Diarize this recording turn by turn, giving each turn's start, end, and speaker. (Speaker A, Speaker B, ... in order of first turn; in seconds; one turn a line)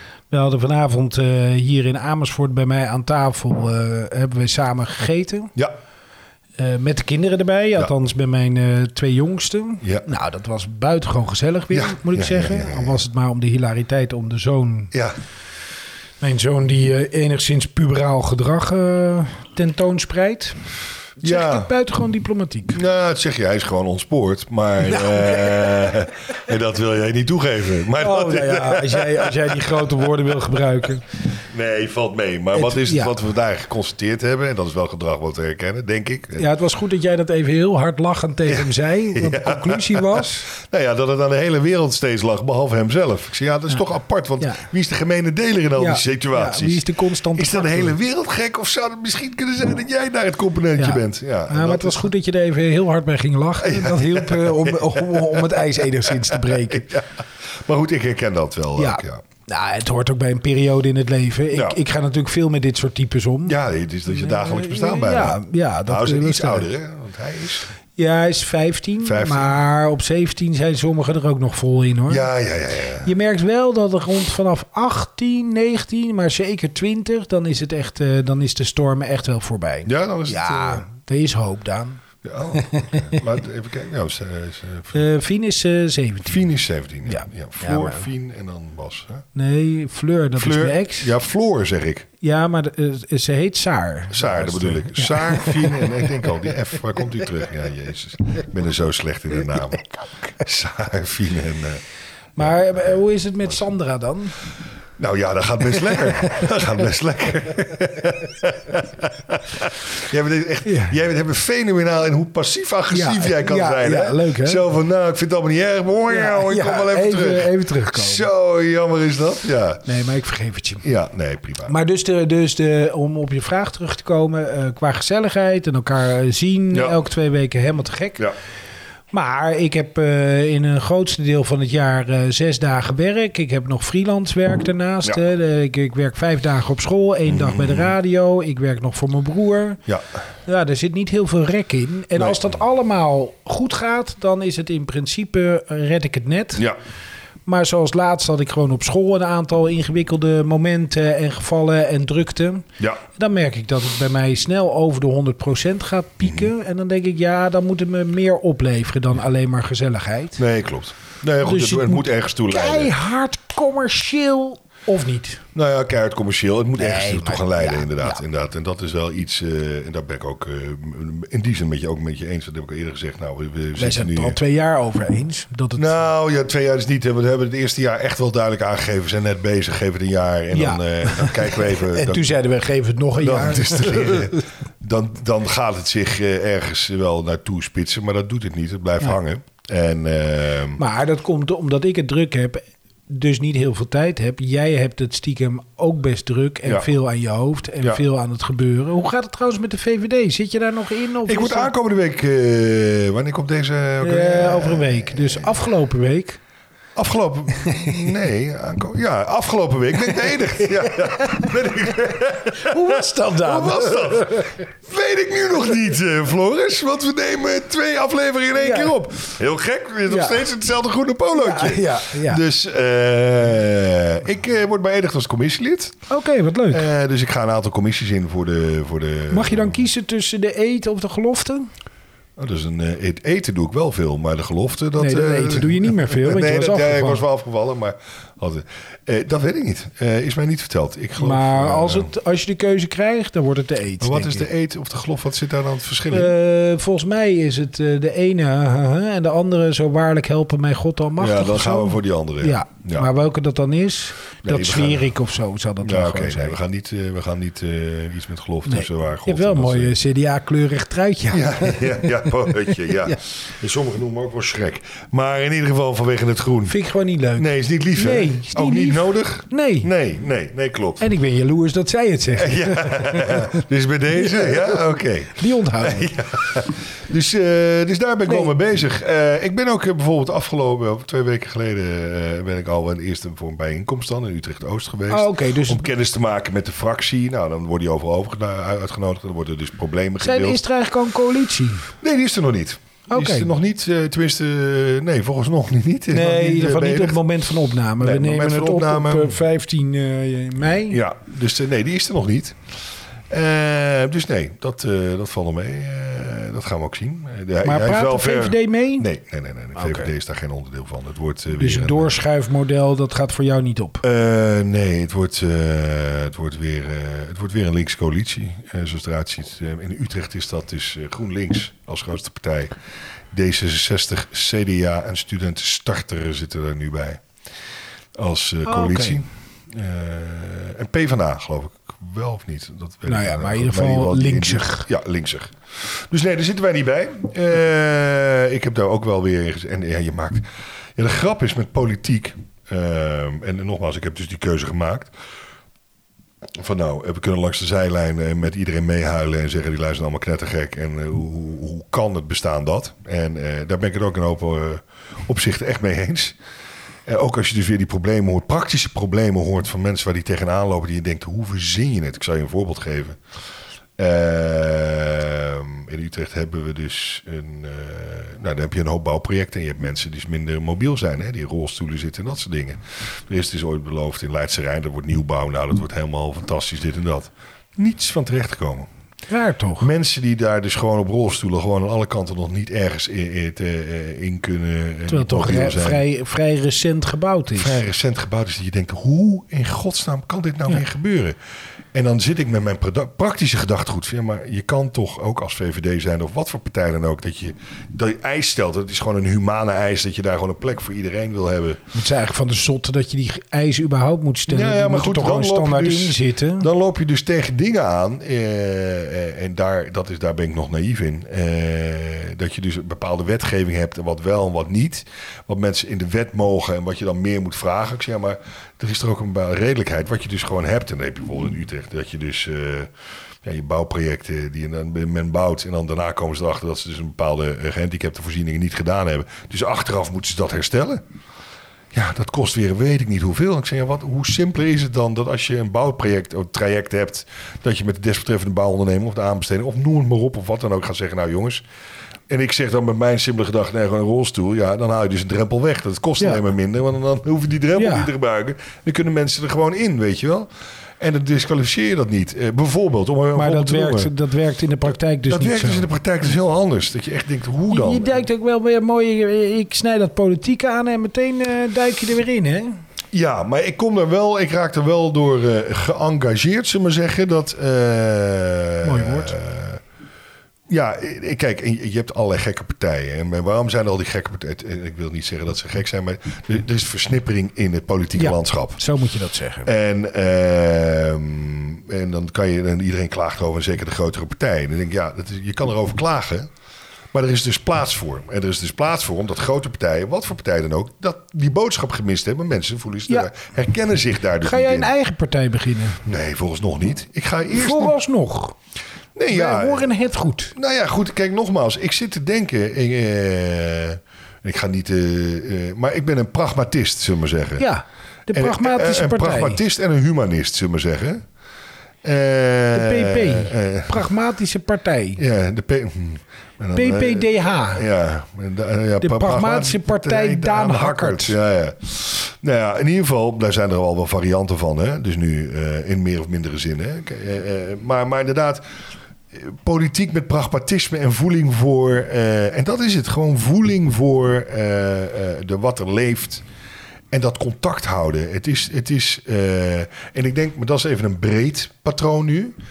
Speaker A: 0.3-5.5
Speaker A: 6.6-14.9
Speaker B: 11.7-13.0
Speaker A: 16.2-20.6
Speaker A: 21.2-22.8
Speaker B: 21.2-21.7
Speaker B: 22.7-30.1
Speaker A: 24.9-26.0
Speaker A: 28.0-31.1
Speaker B: 31.4-36.5
Speaker A: 32.5-33.1
Speaker A: 36.4-40.5
Speaker B: 38.5-52.1
Speaker A: 45.8-48.0
Speaker A: 50.8-56.9
Speaker B: 53.6-59.2
Speaker A: 58.8-63.6
Speaker B: 61.5-61.8
Speaker B: 63.5-67.7
Speaker A: 64.1-66.7
Speaker A: 68.0-72.3
Speaker B: 69.0-69.6
Speaker B: 72.1-73.1
Speaker A: 73.0-82.0
Speaker B: 79.9-80.9
Speaker B: 82.2-85.0
Speaker A: 82.6-83.1
Speaker A: 84.9-86.5
Speaker B: 86.2-89.2
Speaker A: 87.0-88.1
Speaker A: 89.3-91.2
Speaker B: 90.4-92.1
Speaker A: 92.2-96.2
Speaker B: 94.1-101.8
Speaker B: 102.4-103.0
Speaker A: 102.4-104.3
Speaker B: 105.0-119.8
Speaker A: 110.7-111.0
Speaker A: 112.9-114.7
Speaker A: 116.1-118.3
Speaker A: 119.8-120.8
Speaker B: 120.8-121.8
Speaker A: 121.7-128.3
Speaker B: 126.7-127.0
Speaker A: 129.1-139.8
Speaker B: 137.3-137.9
Speaker A: 140.5-146.7
Speaker B: 142.2-142.5
Speaker A: 147.5-160.4
Speaker B: 156.2-156.5
Speaker B: 160.4-162.9
Speaker A: 161.4-165.4
Speaker B: 165.6-174.4
Speaker A: 166.8-168.2
Speaker A: 173.8-176.1
Speaker B: 175.8-182.4
Speaker A: 180.5-184.3
Speaker B: 183.2-190.8
Speaker A: 190.8-201.7
Speaker B: 201.3-205.5
Speaker A: 204.0-206.4
Speaker B: 207.0-226.0
Speaker A: 207.6-208.0
Speaker A: 210.1-211.8
Speaker A: 212.6-214.5
Speaker A: 218.6-218.9
Speaker A: 220.1-220.5
Speaker A: 221.3-222.4
Speaker A: 226.1-226.9
Speaker B: 226.7-229.8
Speaker A: 229.3-231.7
Speaker B: 232.4-242.1
Speaker A: 235.0-237.2
Speaker A: 241.2-244.5
Speaker B: 244.0-246.3
Speaker A: 246.1-256.6
Speaker B: 251.2-253.1
Speaker B: 254.4-255.1
Speaker B: 255.8-259.9
Speaker A: 258.7-263.2
Speaker B: 261.3-266.8
Speaker A: 266.7-269.9
Speaker B: 267.4-271.1
Speaker A: 271.0-273.6
Speaker B: 272.3-290.6
Speaker A: 274.2-274.8
Speaker A: 275.4-276.1
Speaker A: 278.3-278.5
Speaker A: 285.1-285.9
Speaker A: 290.2-291.9
Speaker B: 292.0-297.2
Speaker A: 293.1-293.5
Speaker A: 296.1-301.0
Speaker B: 298.0-299.4
Speaker B: 300.9-302.6
Speaker B: 303.3-312.2
Speaker A: 307.6-309.1
Speaker A: 309.8-310.1
Speaker A: 311.6-314.0
Speaker B: 314.0-322.7
Speaker B: 323.3-327.2
Speaker B: 328.2-345.1
Speaker A: 328.6-329.2
Speaker A: 333.1-334.9
Speaker B: 346.6-356.4
Speaker B: 357.1-363.2
Speaker B: 364.0-378.9
Speaker A: 379.3-379.9
Speaker B: 379.8-386.0
Speaker A: 385.1-387.8
Speaker B: 387.6-391.4
Speaker B: 391.9-401.8
Speaker A: 401.9-406.7
Speaker B: 404.5-422.9
Speaker B: 423.4-431.0
Speaker B: 431.9-441.6
Speaker B: 442.3-450.5
Speaker A: 447.8-448.1
Speaker B: 451.0-454.1
Speaker A: 453.4-455.9
Speaker B: 455.3-458.2
Speaker A: 457.7-462.7
Speaker B: 463.1-469.8
Speaker A: 468.8-469.4
Speaker B: 470.7-478.8
Speaker A: 478.2-479.7
Speaker B: 479.7-486.5
Speaker B: 487.1-494.9
Speaker A: 494.4-496.0
Speaker B: 496.1-498.0
Speaker A: 497.5-498.6
Speaker B: 499.2-500.0
Speaker A: 499.3-500.5
Speaker B: 500.6-507.7
Speaker A: 507.6-509.6
Speaker B: 508.3-511.2
Speaker B: 512.0-514.1
Speaker A: 512.7-515.2
Speaker B: 515.2-528.6
Speaker A: 516.8-517.9
Speaker A: 519.0-521.4
Speaker B: 529.3-536.4
Speaker B: 537.1-542.6